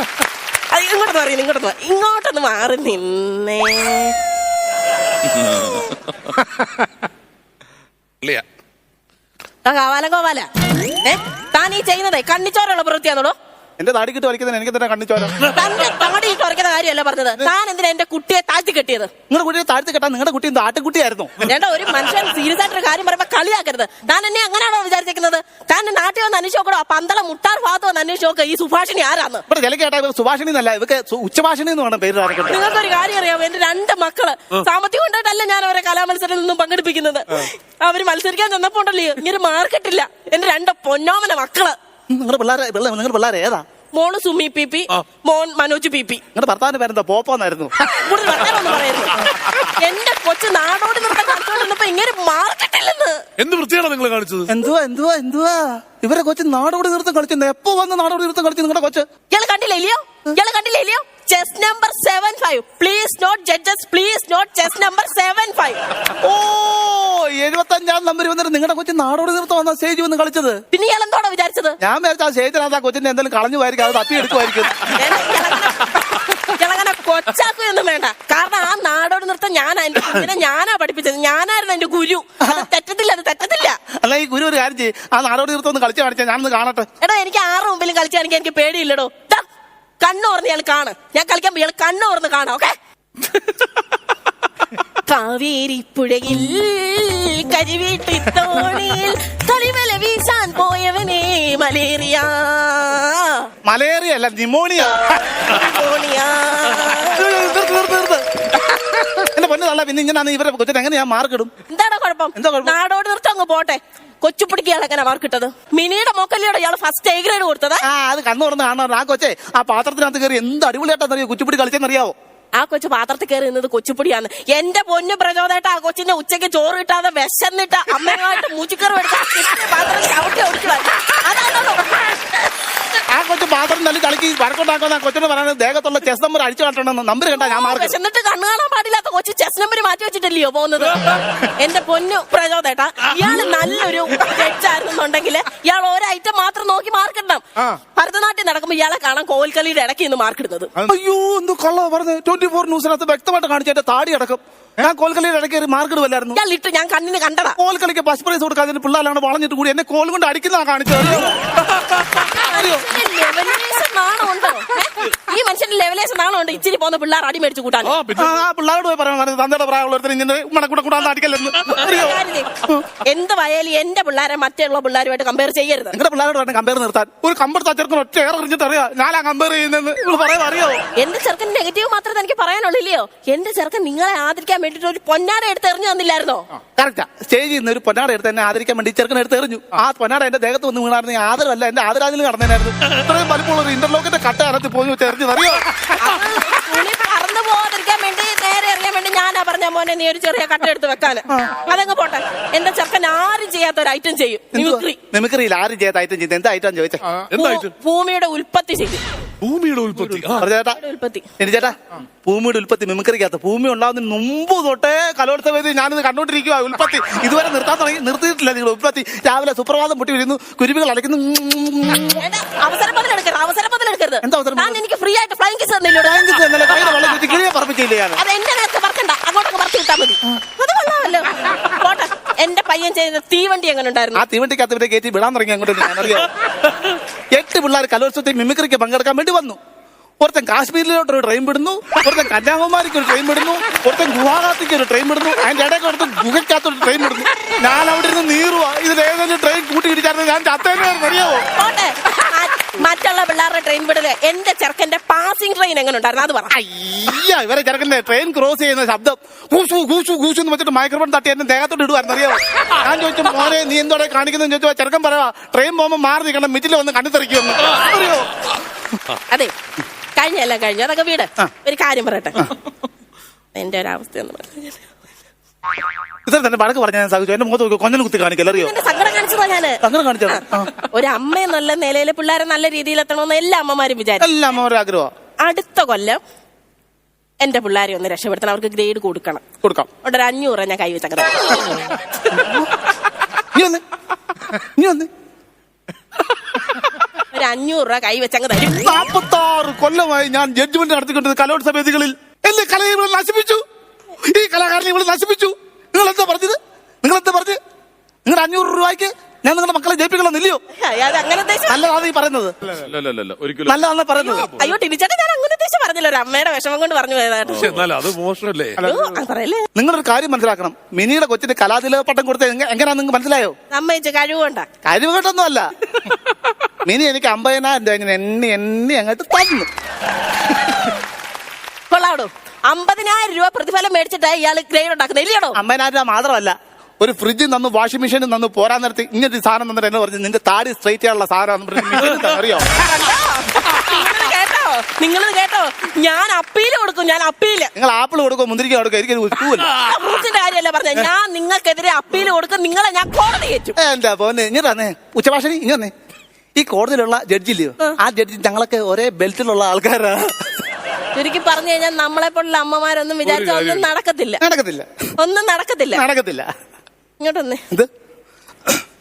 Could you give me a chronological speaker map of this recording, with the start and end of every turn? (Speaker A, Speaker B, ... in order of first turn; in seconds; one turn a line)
Speaker A: 0.7-4.2
Speaker B: 5.3-5.8
Speaker A: 9.6-10.5
Speaker A: 11.0-13.3
Speaker C: 13.8-15.4
Speaker A: 15.4-19.1
Speaker C: 19.3-21.5
Speaker A: 21.4-29.4
Speaker C: 29.5-32.6
Speaker A: 32.5-41.8
Speaker C: 42.1-43.6
Speaker A: 43.9-46.2
Speaker C: 46.3-47.8
Speaker A: 47.9-53.2
Speaker B: 53.4-54.5
Speaker C: 54.5-59.1
Speaker A: 59.3-65.8
Speaker C: 66.2-70.6
Speaker A: 70.7-71.8
Speaker C: 71.8-75.2
Speaker A: 74.8-83.8
Speaker C: 82.4-82.7
Speaker C: 84.0-86.9
Speaker A: 87.0-89.4
Speaker A: 90.0-92.7
Speaker A: 94.9-103.5
Speaker C: 103.6-105.2
Speaker A: 105.3-107.2
Speaker C: 107.0-108.5
Speaker A: 108.6-109.2
Speaker C: 109.1-111.5
Speaker A: 111.7-117.8
Speaker C: 112.3-112.8
Speaker C: 117.8-122.1
Speaker A: 122.5-132.3
Speaker C: 133.1-137.9
Speaker A: 137.3-150.7
Speaker C: 150.8-156.4
Speaker A: 156.3-157.6
Speaker C: 157.6-161.5
Speaker A: 162.2-168.0
Speaker C: 162.4-162.8
Speaker B: 167.8-168.4
Speaker C: 168.1-172.1
Speaker A: 171.6-175.9
Speaker C: 175.9-180.8
Speaker A: 180.9-186.5
Speaker C: 186.8-195.7
Speaker A: 195.9-205.0
Speaker C: 201.3-201.5
Speaker C: 204.5-207.2
Speaker B: 207.3-207.7
Speaker A: 207.3-209.0
Speaker B: 209.4-210.5
Speaker C: 210.4-210.8
Speaker A: 210.6-211.3
Speaker C: 211.4-222.2
Speaker A: 222.1-226.4
Speaker C: 224.2-224.8
Speaker C: 226.0-228.2
Speaker A: 228.2-234.2
Speaker C: 234.1-236.3
Speaker C: 237.3-239.6
Speaker C: 240.2-251.4
Speaker A: 251.5-256.5
Speaker C: 256.5-268.4
Speaker A: 270.1-272.5
Speaker A: 273.5-274.8
Speaker C: 276.2-278.7
Speaker A: 278.5-284.3
Speaker C: 279.8-280.7
Speaker C: 284.2-285.1
Speaker A: 285.4-286.2
Speaker A: 287.4-289.4
Speaker C: 289.6-289.9
Speaker A: 290.0-291.9
Speaker C: 292.3-292.7
Speaker C: 293.5-293.8
Speaker C: 294.5-295.1
Speaker C: 296.4-297.0
Speaker A: 297.3-298.8
Speaker C: 298.6-303.6
Speaker C: 304.2-307.6
Speaker C: 308.2-310.6
Speaker A: 310.8-311.8
Speaker C: 311.7-312.5
Speaker B: 312.7-313.7
Speaker C: 313.6-314.5
Speaker A: 314.4-317.8
Speaker B: 317.5-318.8
Speaker C: 318.8-319.2
Speaker A: 318.8-319.7
Speaker C: 319.7-323.5
Speaker A: 323.7-324.7
Speaker C: 324.8-325.7
Speaker C: 326.8-329.7
Speaker A: 331.9-335.6
Speaker C: 335.5-342.7
Speaker A: 342.7-347.7
Speaker C: 347.8-349.7
Speaker A: 349.7-353.8
Speaker C: 353.8-355.9
Speaker C: 356.6-360.6
Speaker A: 361.1-364.4
Speaker B: 363.2-363.9
Speaker C: 364.4-364.9
Speaker A: 365.2-366.0
Speaker C: 365.9-366.5
Speaker A: 367.2-367.6